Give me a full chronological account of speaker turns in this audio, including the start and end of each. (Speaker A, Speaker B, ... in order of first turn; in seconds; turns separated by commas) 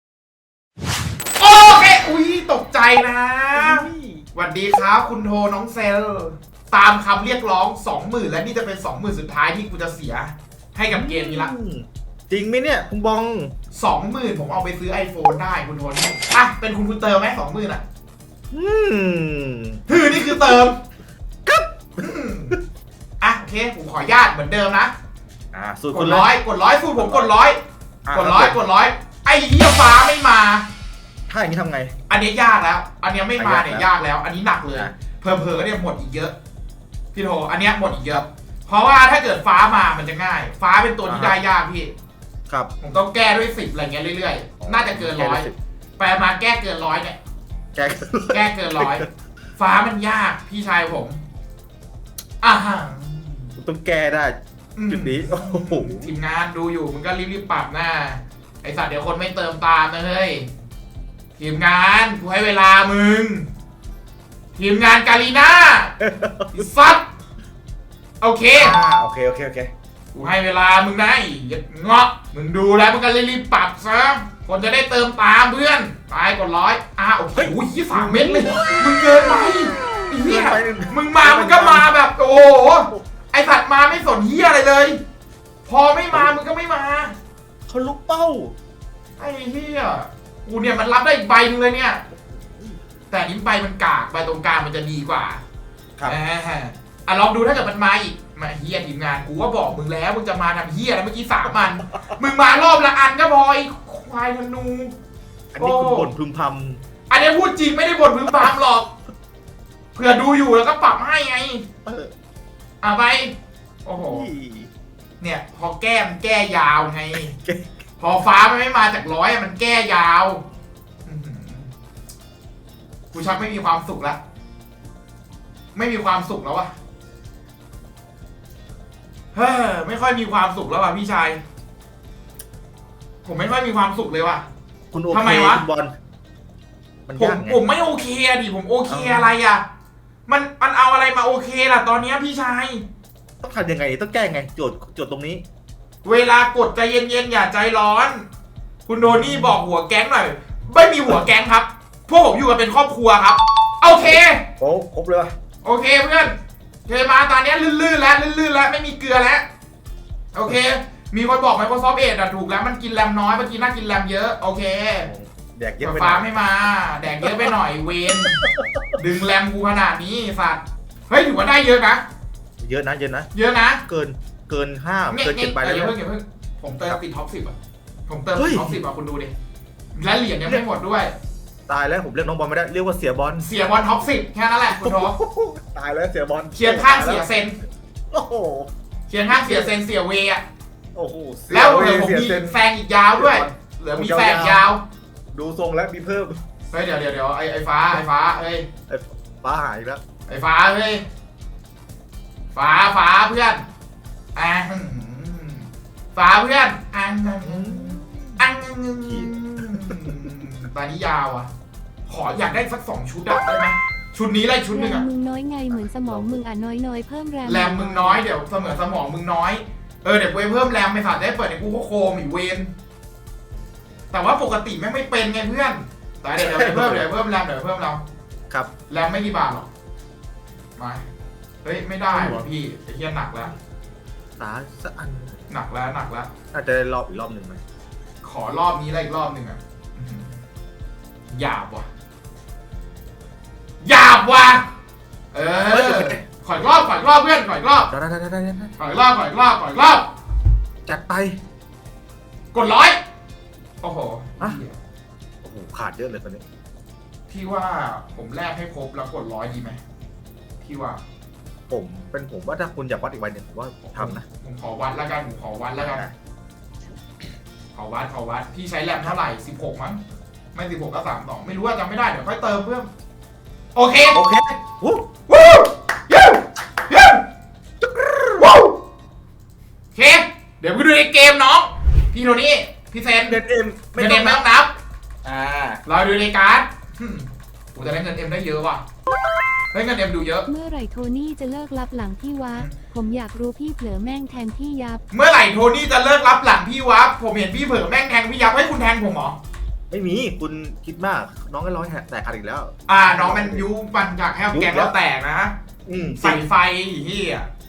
Speaker A: 1.4-11.5, Speaker B: 3.5-4.3, Speaker B: 10.9-13.6, Speaker A: 13.7-17.8, Speaker B: 18.5-19.8, Speaker A: 19.9-20.8, Speaker A: 22.0-22.6, Speaker A: 23.2-24.9, Speaker B: 25.5-26.3, Speaker A: 25.9-27.6, Speaker B: 27.0-27.3, Speaker B: 28.1-28.6, Speaker A: 28.1-30.7, Speaker B: 31.3-32.0, Speaker A: 32.1-36.4, Speaker B: 33.4-33.9, Speaker A: 37.1-41.9, Speaker B: 41.0-41.4, Speaker A: 42.8-47.2, Speaker B: 44.6-45.6, Speaker B: 47.7-49.1, Speaker A: 48.3-51.2, Speaker A: 52.4-53.6, Speaker B: 53.6-56.1, Speaker A: 54.8-60.5, Speaker A: 61.4-63.5, Speaker A: 64.6-66.0, Speaker B: 66.0-66.7, Speaker A: 66.5-67.1, Speaker A: 68.2-68.8, Speaker B: 68.5-69.7, Speaker A: 70.1-85.0, Speaker B: 77.4-79.0, Speaker B: 80.2-81.9, Speaker A: 85.7-87.2, Speaker B: 87.7-88.6, Speaker A: 89.2-92.0, Speaker B: 92.1-92.8, Speaker A: 93.1-95.4, Speaker A: 96.1-104.9, Speaker B: 105.5-106.8, Speaker A: 105.6-106.1, Speaker A: 107.1-108.9, Speaker A: 109.9-111.7, Speaker B: 111.8-112.1, Speaker A: 112.8-114.3, Speaker B: 114.0-114.7, Speaker A: 115.2-117.3, Speaker B: 117.3-117.7, Speaker A: 118.0-120.5, Speaker A: 121.1-121.7, Speaker A: 123.1-124.2, Speaker A: 125.7-126.7, Speaker A: 129.3-131.4, Speaker A: 133.2-134.4, Speaker B: 134.9-135.9, Speaker A: 135.1-135.6, Speaker B: 137.1-137.6, Speaker A: 137.2-139.6, Speaker B: 138.9-139.3, Speaker A: 140.3-142.8, Speaker B: 143.4-145.4, Speaker A: 146.0-148.3, Speaker A: 148.9-154.5, Speaker B: 149.0-149.6, Speaker B: 154.6-155.3, Speaker A: 155.6-159.5, Speaker A: 160.3-165.1, Speaker B: 165.1-166.3, Speaker A: 165.8-172.1, Speaker B: 167.2-167.5, Speaker B: 168.3-168.9, Speaker B: 172.6-173.3, Speaker A: 173.3-173.8, Speaker B: 173.9-176.0, Speaker A: 175.1-177.6, Speaker A: 178.1-179.3, Speaker B: 178.4-178.8, Speaker A: 179.9-181.1, Speaker B: 181.7-183.5, Speaker A: 183.4-185.2, Speaker B: 184.7-187.3, Speaker A: 186.6-187.6, Speaker B: 188.1-188.7, Speaker A: 189.1-190.4, Speaker B: 189.3-189.7, Speaker B: 190.9-192.6, Speaker A: 191.5-194.8, Speaker B: 193.2-194.6, Speaker B: 195.3-196.4, Speaker A: 196.7-198.7, Speaker B: 198.9-200.0, Speaker A: 200.3-201.1, Speaker A: 202.5-203.7, Speaker A: 204.3-211.5, Speaker B: 207.4-208.5, Speaker B: 209.1-210.3, Speaker A: 212.1-215.1, Speaker C: 214.7-218.2, Speaker B: 216.1-216.4, Speaker A: 217.4-222.7, Speaker A: 224.1-228.0, Speaker B: 226.4-227.1, Speaker A: 228.9-229.7, Speaker A: 230.8-231.0, Speaker A: 231.6-233.6, Speaker B: 232.1-232.4, Speaker B: 234.4-235.4, Speaker A: 235.5-236.3, Speaker B: 236.5-237.6, Speaker A: 238.2-240.4, Speaker A: 241.3-241.9, Speaker A: 243.8-244.7, Speaker A: 245.3-247.9, Speaker B: 245.7-246.2, Speaker B: 247.9-248.8, Speaker A: 248.8-250.1, Speaker B: 250.8-251.4, Speaker A: 252.5-253.0, Speaker A: 253.8-254.8, Speaker B: 255.4-256.5, Speaker A: 257.3-259.8, Speaker A: 260.6-261.0, Speaker B: 261.7-264.2, Speaker A: 263.9-266.1, Speaker B: 265.8-266.1, Speaker A: 267.8-270.0, Speaker A: 270.5-272.9, Speaker A: 273.8-274.2, Speaker B: 274.1-275.1, Speaker A: 275.3-277.2, Speaker A: 278.4-278.8, Speaker A: 279.9-283.4, Speaker B: 283.3-284.4, Speaker A: 284.0-284.7, Speaker B: 285.2-285.8, Speaker A: 285.9-288.8, Speaker A: 289.7-290.5, Speaker C: 290.5-295.0, Speaker A: 295.1-299.4, Speaker B: 299.9-303.7, Speaker A: 302.9-305.6, Speaker B: 304.5-304.9, Speaker B: 305.9-306.4, Speaker A: 306.2-307.5